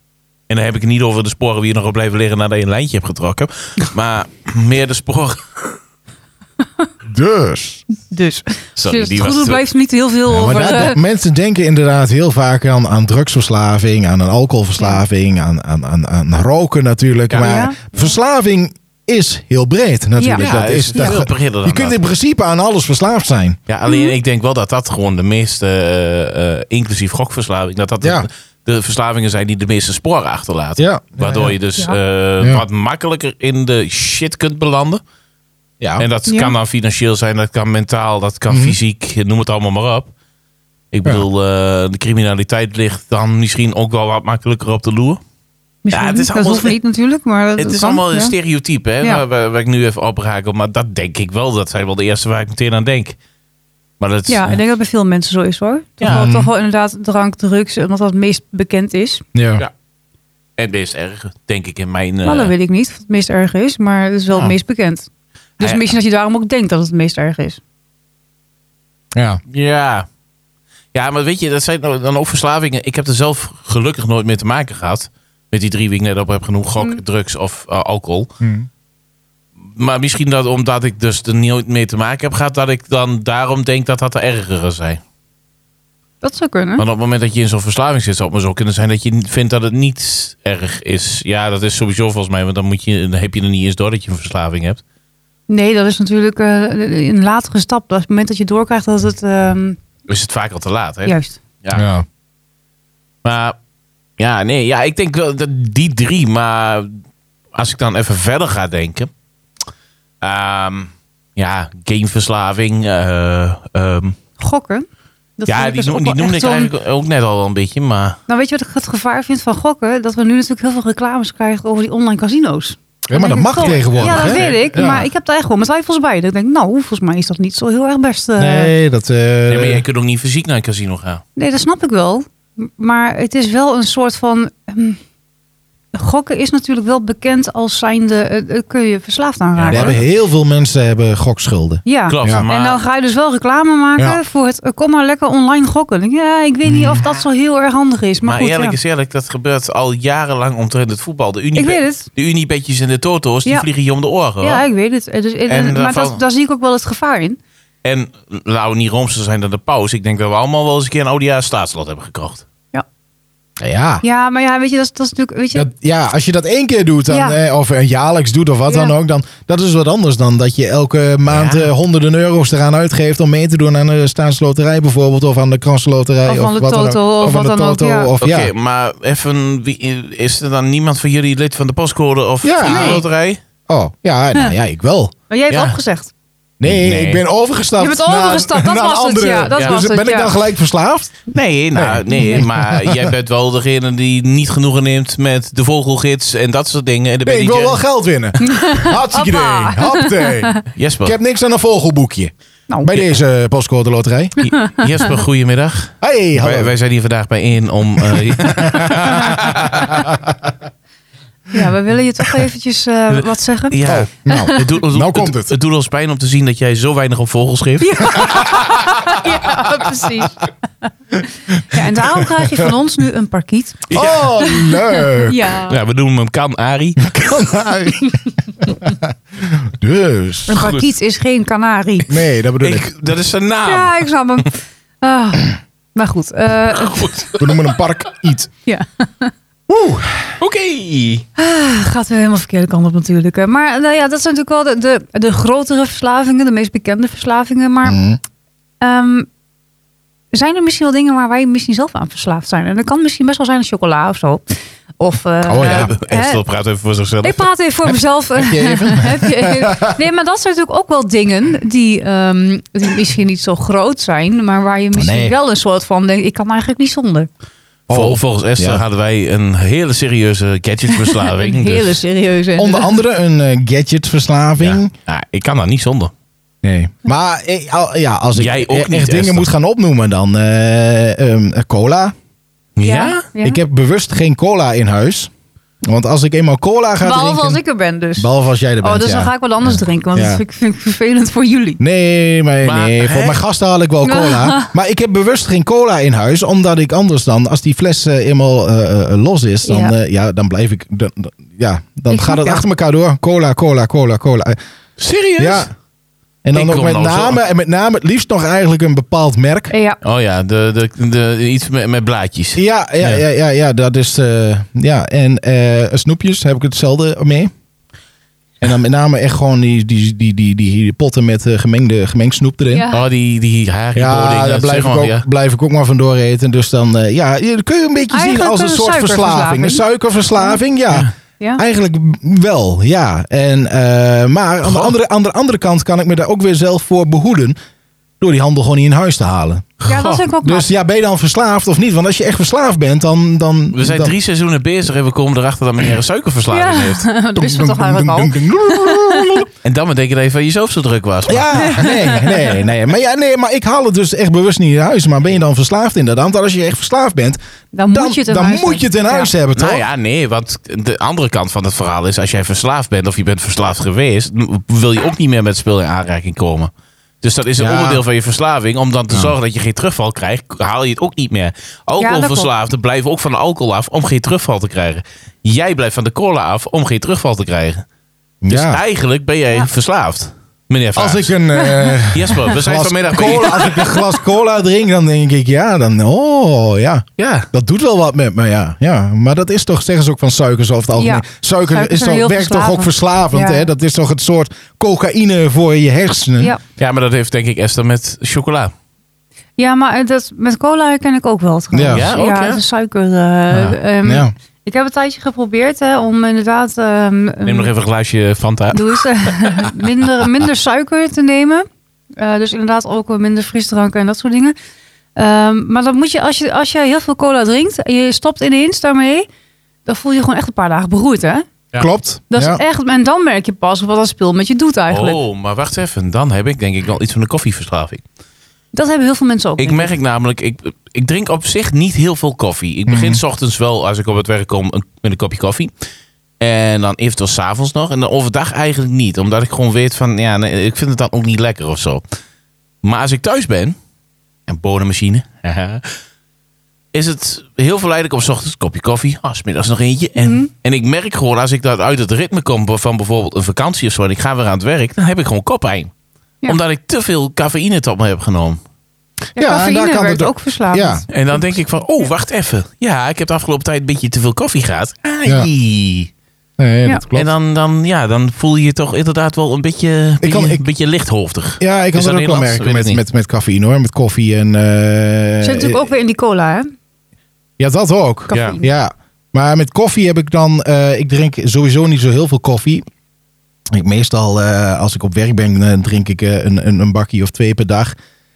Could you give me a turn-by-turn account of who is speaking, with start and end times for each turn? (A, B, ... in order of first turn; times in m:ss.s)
0:00.5-0:05.8 A
0:07.0-0:07.8 B
0:08.0-0:11.0 C
0:08.8-0:09.6 A
0:10.3-0:23.6 B
0:17.4-0:17.8 C
0:20.2-0:21.2 C
0:20.4-0:22.0 A
0:23.7-0:35.0 A
0:23.8-0:24.1 C
0:28.0-0:28.3 B
0:30.8-0:31.5 B
0:36.0-0:40.1 A
0:36.3-0:36.5 C
0:38.5-0:38.8 B
0:40.9-0:45.2 A
0:45.8-0:48.3 C
0:45.9-0:46.8 A
0:47.6-0:53.2 A
0:54.0-0:54.6 A
0:54.3-0:59.2 C
0:56.0-0:56.3 A
0:56.0-0:56.5 B
0:59.3-0:59.6 B
1:00.6-1:02.5 A
1:02.2-1:05.1 C
1:05.6-1:07.6 C
1:05.6-1:06.0 A
1:09.1-1:09.4 B
1:09.5-1:10.0 A
1:10.9-1:18.3 A
1:18.4-1:18.7 B
1:19.7-1:25.0 A
1:26.2-1:26.8 C
1:26.8-1:34.8 A
1:35.5-1:39.8 C
1:40.1-1:41.8 A
1:41.0-1:41.4 C
1:41.7-1:42.0 B
1:43.2-1:43.5 A
1:44.2-1:47.0 A
1:47.5-1:49.1 A
1:50.2-1:54.2 A
1:54.4-1:54.9 C
1:55.4-1:56.7 C
1:55.5-1:58.2 A
1:58.3-2:08.7 C
2:03.0-2:05.1 B
2:03.6-2:04.7 A
2:08.4-2:09.8 B
2:09.5-2:11.2 A
2:11.4-2:15.0 C
2:15.9-2:20.0 C
2:19.6-2:20.0 A
2:19.7-2:22.4 B
2:21.8-2:28.8 C
2:22.1-2:22.8 A
2:26.6-2:27.0 B
2:28.2-2:34.6 A
2:31.6-2:32.1 C
2:34.4-2:37.4 C
2:35.5-2:36.2 A
2:37.8-2:42.4 A
2:43.6-2:44.0 B
2:44.0-2:45.7 C
2:45.5-2:58.5 B
2:47.1-2:47.4 C
2:48.7-2:48.9 C
2:51.3-2:51.7 A
2:56.2-2:58.1 C
2:58.2-3:03.4 A
3:02.4-3:03.0 B
3:02.6-3:03.0 C
3:03.7-3:05.1 B
3:05.3-3:06.1 C
3:05.5-3:05.7 A
3:06.6-3:13.1 B
3:06.6-3:07.2 A
3:07.8-3:10.3 C
3:09.5-3:09.8 A
3:11.3-3:17.8 A
3:12.1-3:12.4 C
3:17.2-3:22.3 B
3:18.4-3:20.6 C
3:20.7-3:21.2 A
3:22.8-3:24.3 B
3:22.9-3:23.2 A
3:24.4-3:30.1 A
3:24.5-3:24.8 C
3:26.0-3:26.7 B
3:28.0-3:30.5 B
3:31.5-3:33.8 C
3:33.7-3:38.5 A
3:33.8-3:35.5 B
3:37.8-3:40.5 C
3:38.3-3:38.7 B
3:41.3-3:45.8 C
3:41.7-3:42.7 B
3:43.9-3:44.3 A
3:43.9-3:45.5 B
3:45.7-3:47.2 A
3:47.0-3:50.7 B
3:50.5-3:52.1 C
3:50.6-3:50.9 A
3:52.1-3:52.9 B
3:52.6-3:54.0 A
3:53.6-3:57.1 C
3:56.7-3:57.6 A
3:57.4-3:58.5 B
3:58.6-3:59.3 C
3:59.7-4:00.3 B
4:00.4-4:01.2 A
4:01.4-4:08.0 C
4:07.8-4:08.2 B
4:08.8-4:09.3 C
4:10.3-4:16.4 C
4:15.4-4:15.9 B
4:15.6-4:17.4 A
4:17.2-4:27.3 C
4:18.4-4:19.9 B
4:25.0-4:25.3 B
4:27.9-4:28.8 B
4:27.9-4:32.0 A
4:31.0-4:33.0 C
4:32.6-4:34.9 B
4:34.6-4:36.1 A
4:36.6-4:42.1 B
4:38.3-4:39.5 A
4:42.8-4:43.2 A
4:42.8-4:43.6 C
4:43.4-4:45.3 B
4:45.8-4:47.6 B
4:47.0-4:48.3 C
4:48.2-4:50.4 B
4:48.8-4:51.8 C
4:51.8-5:04.6 B
4:52.6-4:53.4 A
4:54.0-4:54.7 C
4:59.6-4:59.9 C
5:02.1-5:02.6 C
5:05.0-5:05.7 A
5:05.4-5:05.7 B
5:06.4-5:09.7 B
5:06.5-5:07.4 A
5:09.7-5:10.0 C
5:10.0-5:13.2 A
5:12.5-5:17.5 B
5:18.6-5:22.8 B
5:22.7-5:23.0 C
5:22.9-5:25.2 A
5:23.9-5:37.6 B
5:28.1-5:29.8 C
5:34.6-5:34.9 A
5:38.2-5:39.8 B
5:39.8-5:40.2 A
5:39.8-5:40.7 C
5:40.4-5:44.2 B
5:43.7-5:47.0 A
5:46.5-5:49.4 C
5:47.4-5:49.5 B
5:49.6-5:51.8 A
5:51.3-5:57.4 B
5:51.6-5:52.6 C
5:57.7-5:59.3 C
5:57.9-5:59.8 B
5:59.6-6:06.7 A
6:07.2-6:17.8 A
6:07.6-6:08.0 B
6:12.0-6:12.5 C
6:18.4-6:18.8 B
6:18.5-6:21.3 A
6:21.0-6:36.5 B
6:21.6-6:22.0 C
6:22.1-6:23.8 A
6:23.3-6:24.0 C
6:27.2-6:27.5 A
6:31.0-6:33.6 C
6:36.8-6:38.7 A
6:39.6-6:47.7 C
6:41.7-6:42.1 B
6:41.9-6:42.6 A
6:43.5-6:43.8 A
6:44.0-6:44.3 B
6:47.4-6:49.7 A
6:48.7-6:51.6 C
6:52.2-6:54.5 C
6:55.2-6:59.3 C
6:59.8-7:01.5 C
7:01.8-7:02.6 B
7:02.3-7:05.2 C
7:04.9-7:08.0 A
7:08.7-7:09.9 C
7:09.6-7:15.7 A
7:12.9-7:13.2 B
7:16.4-7:22.0 A
7:22.8-7:23.8 A
7:24.5-7:25.8 A
7:26.9-7:35.9 A
7:30.2-7:30.5 C
7:36.4-7:38.6 A
7:39.4-7:41.4 C
7:39.4-7:41.0 B
7:41.1-7:46.1 A
7:46.6-7:47.3 B
7:47.1-7:53.0 A
7:50.2-7:50.6 B
7:51.6-7:55.8 B
7:55.4-7:56.7 C
7:57.6-8:02.8 B
7:58.3-7:58.7 C
7:58.3-7:58.6 A
8:03.7-8:08.0 B